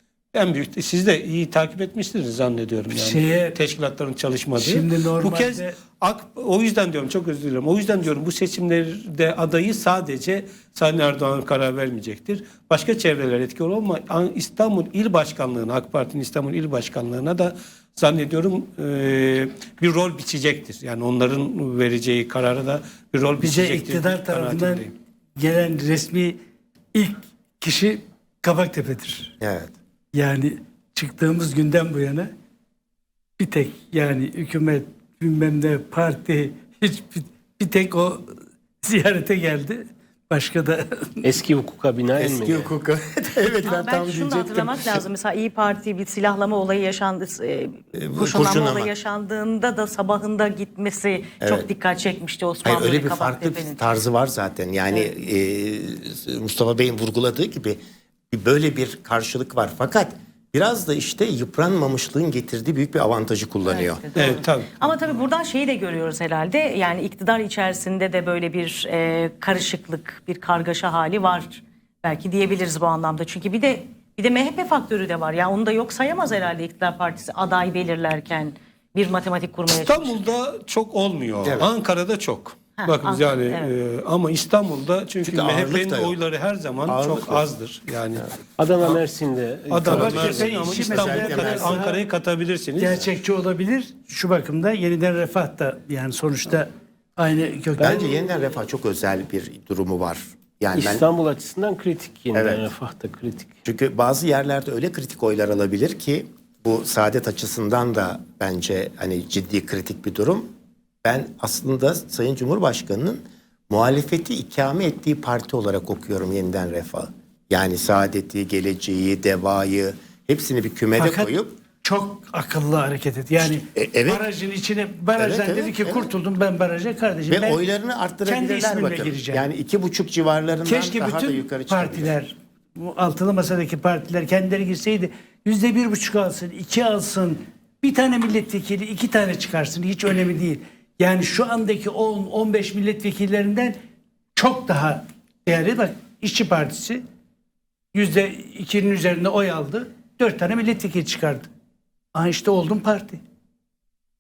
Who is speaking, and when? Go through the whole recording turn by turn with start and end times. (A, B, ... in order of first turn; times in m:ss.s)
0:00.3-0:24.9 A
0:02.9-0:03.6 B
0:04.6-0:05.8 B
0:23.4-0:26.4 B
0:26.9-0:29.4 B
0:29.4-0:29.7 C
0:30.1-0:32.3 B
0:33.4-0:41.3 B
0:41.2-0:42.7 D
0:42.2-0:45.0 C
0:43.6-0:53.8 E
0:47.9-0:48.9 C
0:51.4-0:51.7 C
0:52.6-0:57.8 C
0:58.3-1:04.0 C
1:03.7-1:20.3 E
1:04.2-1:05.2 A
1:19.7-1:28.3 A
1:21.4-1:21.7 C
1:22.8-1:23.7 E
1:25.2-1:26.2 C
1:26.9-1:27.5 C
1:28.6-1:30.6 D
1:29.7-1:33.0 A
1:29.8-1:32.0 B
1:29.8-1:31.8 C
1:32.8-1:38.0 B
1:37.8-1:41.0 C
1:40.7-1:43.5 D
1:42.4-1:42.7 C
1:43.6-1:50.5 C
1:51.0-2:01.5 C
2:01.0-2:07.6 B
2:03.4-2:04.2 C
2:05.2-2:06.1 C
2:07.3-2:12.1 C
2:08.2-2:09.4 B
2:10.6-2:23.8 B
2:24.4-2:27.0 B
2:27.9-2:31.5 B
2:32.1-2:33.2 B